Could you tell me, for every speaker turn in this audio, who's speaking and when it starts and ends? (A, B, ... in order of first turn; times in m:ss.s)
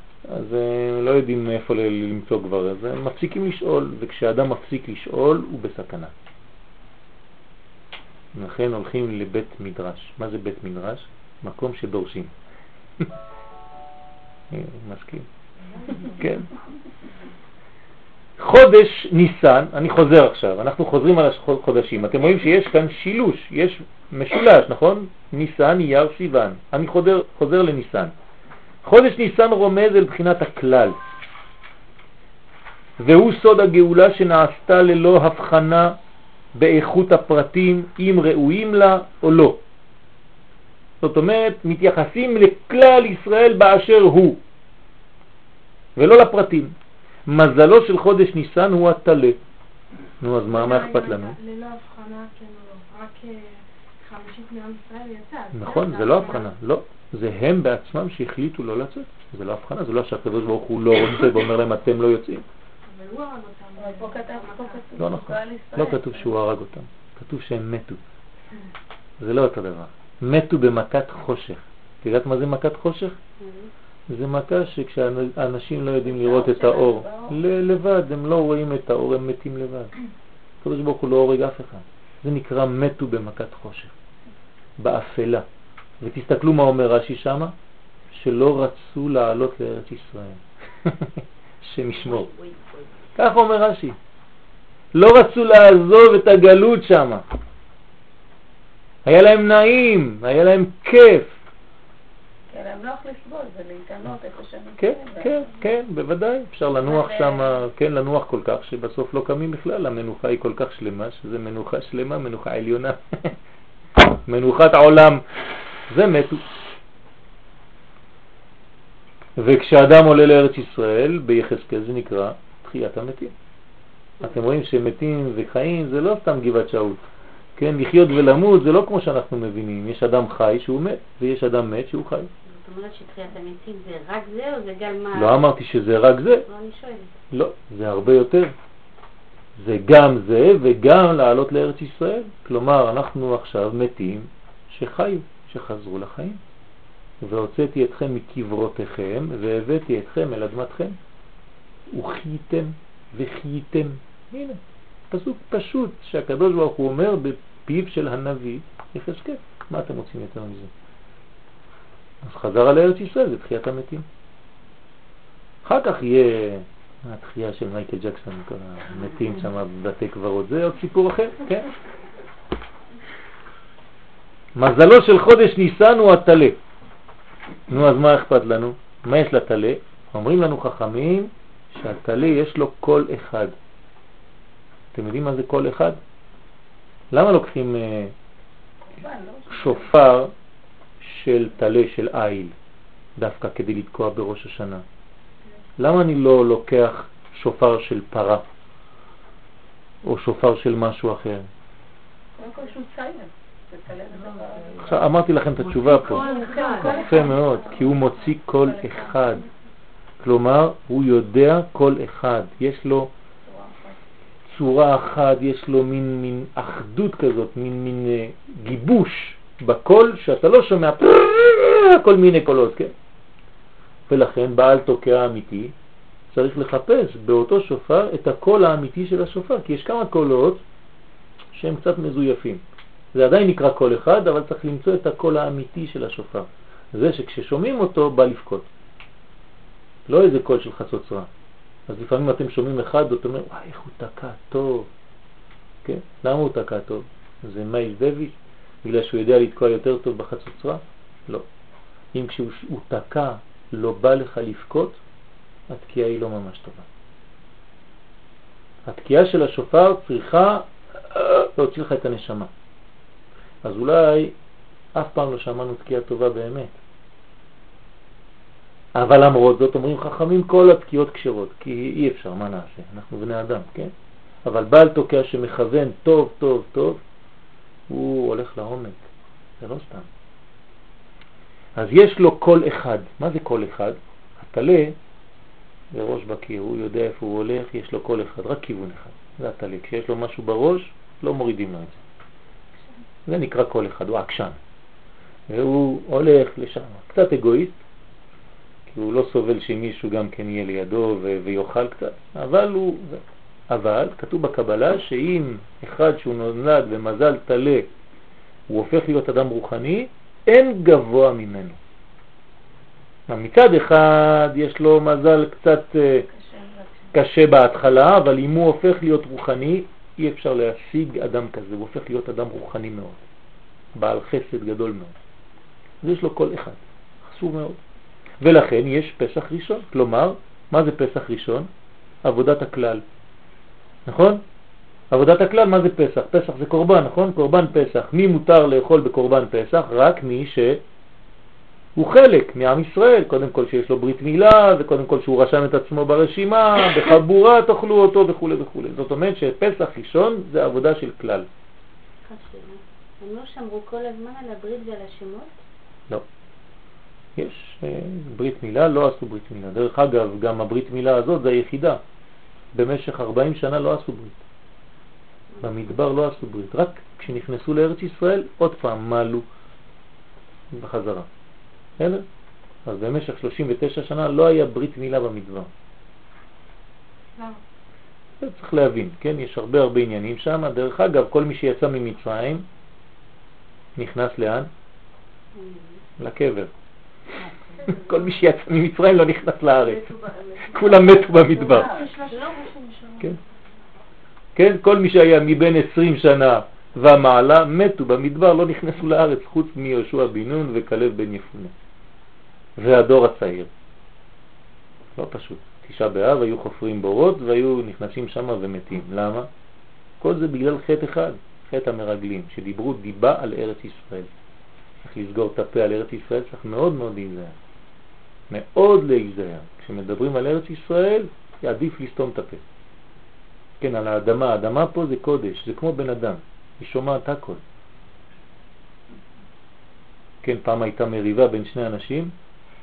0:00.3-0:06.1 A
0:08.3-0:12.3 A
0:14.5-0:15.3 A
0:16.0-0:16.5 A
0:18.4-0:28.1 A
0:28.8-0:31.0 A
0:33.0-0:36.0 A
0:36.6-0:39.6 A
0:41.0-0:44.4 A
0:46.0-0:46.7 A
0:47.3-0:49.4 A
0:50.2-0:51.4 A
0:50.4-0:56.5 B
0:55.5-1:02.4 A
1:02.8-1:04.8 B
1:03.8-1:06.3 C
1:05.0-1:08.0 A
1:09.2-1:13.2 A
1:13.4-1:13.7 D
1:14.1-1:19.9 A
1:16.0-1:17.4 C
1:20.6-1:23.9 A
1:24.8-1:25.4 A
1:26.0-1:27.5 A
1:28.1-1:32.3 A
1:32.0-1:32.8 D
1:33.2-1:34.0 A
1:34.9-1:37.2 A
1:39.0-1:41.3 A
1:42.5-1:45.5 C
1:44.8-1:53.3 A
1:46.8-1:47.6 C
1:54.2-1:55.2 A
1:55.9-1:56.4 A
1:59.4-2:03.3 A
2:04.2-2:07.0 A
2:07.6-2:12.3 A
2:12.4-2:15.4 D
2:15.1-2:16.4 A
2:16.4-2:17.2 D
2:17.3-2:18.5 A
2:19.6-2:26.4 A
2:27.2-2:31.0 A
2:31.9-2:40.7 A
2:42.2-2:44.0 A
2:45.6-2:51.7 A
2:54.6-2:56.6 A
2:57.7-3:03.5 A
3:04.9-3:06.0 A
3:07.1-3:08.1 A
3:08.9-3:09.9 C
3:09.5-3:10.3 A
3:11.0-3:12.5 A
3:13.2-3:14.8 A
3:15.8-3:18.4 A
3:20.0-3:21.5 A
3:22.4-3:25.0 C
3:24.8-3:29.4 A
3:25.6-3:27.1 D
3:26.1-3:29.4 C
3:26.6-3:26.8 B
3:30.2-3:33.1 A
3:33.4-3:34.0 C
3:34.5-3:42.9 A
3:44.1-3:45.7 A
3:46.3-3:50.6 A
3:51.5-3:52.6 A
3:53.1-3:58.7 A
4:00.1-4:01.3 A
4:01.9-4:04.9 A
4:05.8-4:11.4 A
4:12.1-4:15.0 A
4:15.7-4:16.8 A
4:18.9-4:22.5 A
4:23.6-4:24.3 A
4:24.9-4:26.8 A
4:28.9-4:33.9 A
4:34.4-4:37.0 A
4:37.9-4:39.0 A
4:39.6-4:40.1 A
4:41.8-4:44.9 A
4:45.9-4:52.0 A
4:53.3-4:54.6 A
4:55.5-4:57.8 A
4:58.9-5:07.9 A
5:08.7-5:11.8 A
5:13.3-5:16.3 A
5:16.3-5:17.1 C
5:17.1-5:23.2 A
5:23.9-5:25.1 A
5:26.0-5:27.8 A
5:28.4-5:31.7 A
5:32.2-5:33.0 A
5:34.0-5:34.4 A
5:35.1-5:40.8 A
5:42.0-5:51.4 A
5:52.2-5:55.5 D
5:57.4-6:02.0 A
6:02.7-6:04.4 A
6:05.6-6:09.4 A
6:10.7-6:11.3 A
6:12.0-6:12.2 A
6:12.8-6:15.7 A
6:17.3-6:17.6 B
6:18.4-6:22.6 A
6:24.0-6:24.7 A
6:25.5-6:26.0 D
6:26.2-6:26.7 A
6:27.4-6:27.7 D
6:27.8-6:28.2 B
6:27.8-6:30.1 A
6:29.8-6:33.5 B
6:30.6-6:31.9 A
6:31.4-6:32.1 C
6:32.2-6:32.5 D
6:34.6-6:41.7 A
6:42.8-6:43.7 A
6:45.2-6:49.5 A
6:50.2-6:54.3 A
6:55.0-6:57.5 A
6:58.5-7:02.6 A
7:03.8-7:07.6 A
7:10.4-7:12.3 A